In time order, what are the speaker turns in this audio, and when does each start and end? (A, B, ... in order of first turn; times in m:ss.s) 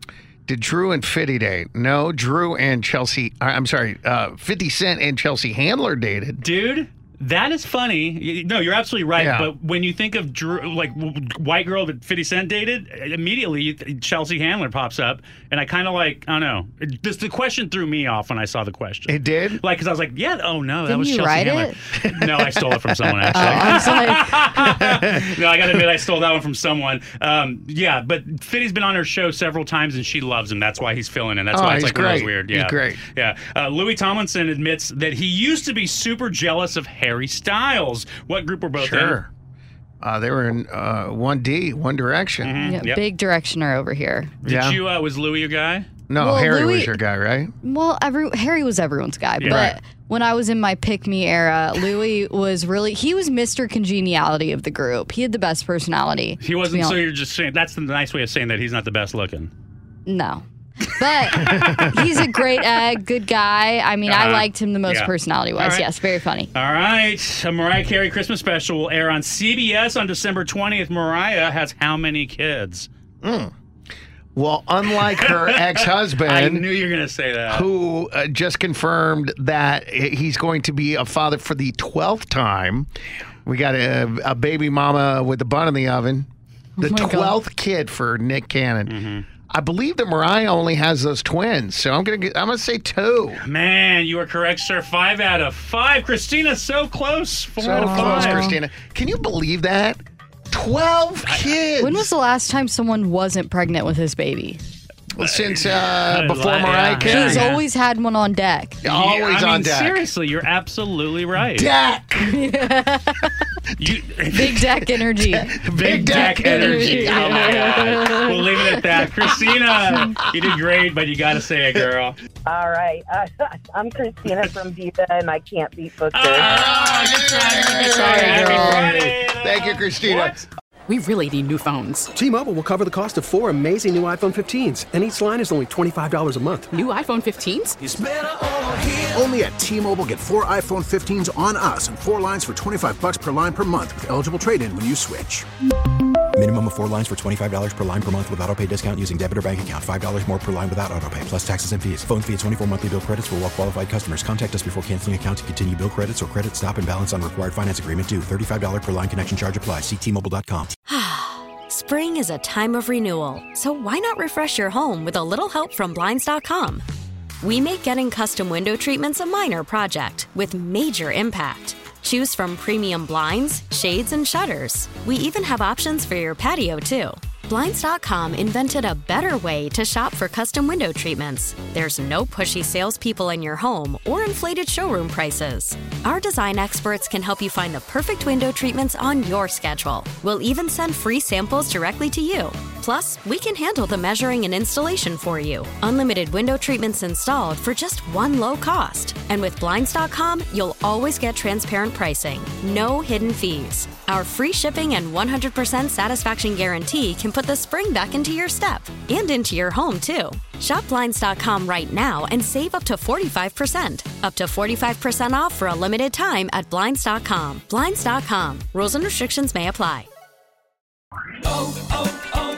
0:00.4-0:06.4 A
0:06.4-0:39.2 B
0:09.2-0:09.5 A
0:19.1-0:19.6 A
0:20.8-0:21.8 C
0:22.2-0:23.9 A
0:23.3-0:24.4 C
0:24.6-0:25.2 A
0:31.5-0:33.0 A
0:38.8-0:39.3 A
0:40.0-0:42.6 A
0:42.4-0:43.0 B
0:42.6-0:44.3 C
0:44.4-0:45.9 B
0:44.4-0:44.8 A
0:46.1-0:47.5 A
0:46.2-0:47.0 C
0:47.6-0:57.0 C
0:49.4-0:49.7 B
0:49.4-0:49.8 A
0:56.4-0:59.5 B
1:00.0-1:06.5 C
1:01.2-1:02.0 B
1:04.1-1:05.9 B
1:06.5-1:12.9 B
1:13.2-1:13.5 A
1:14.3-1:16.6 A
1:15.2-1:17.7 B
1:17.5-1:22.9 A
1:23.4-1:26.3 A
1:26.8-1:27.4 C
1:26.8-1:29.0 A
1:28.8-1:29.3 B
1:29.5-1:33.4 A
1:33.4-1:38.5 B
1:37.6-1:42.1 A
1:37.7-1:38.6 C
1:41.2-1:41.6 B
1:41.8-1:44.6 C
1:45.1-1:47.5 A
1:45.2-1:47.6 B
1:47.0-1:48.8 C
1:48.8-1:50.0 A
1:48.8-1:51.7 B
1:51.5-1:52.4 A
1:52.2-1:53.4 C
1:53.8-1:54.6 B
1:54.3-1:58.5 C
1:55.1-1:57.9 A
1:55.8-2:02.2 B
2:02.4-2:06.5 D
2:06.1-2:10.4 B
2:06.4-2:10.4 A
2:07.2-2:08.7 E
2:08.3-2:08.8 C
2:10.9-2:12.1 E
2:12.2-2:16.8 F
2:16.7-2:17.8 E
2:17.8-2:25.5 G
2:26.4-2:40.7 H
2:40.9-2:46.8 I
2:47.4-3:40.1 I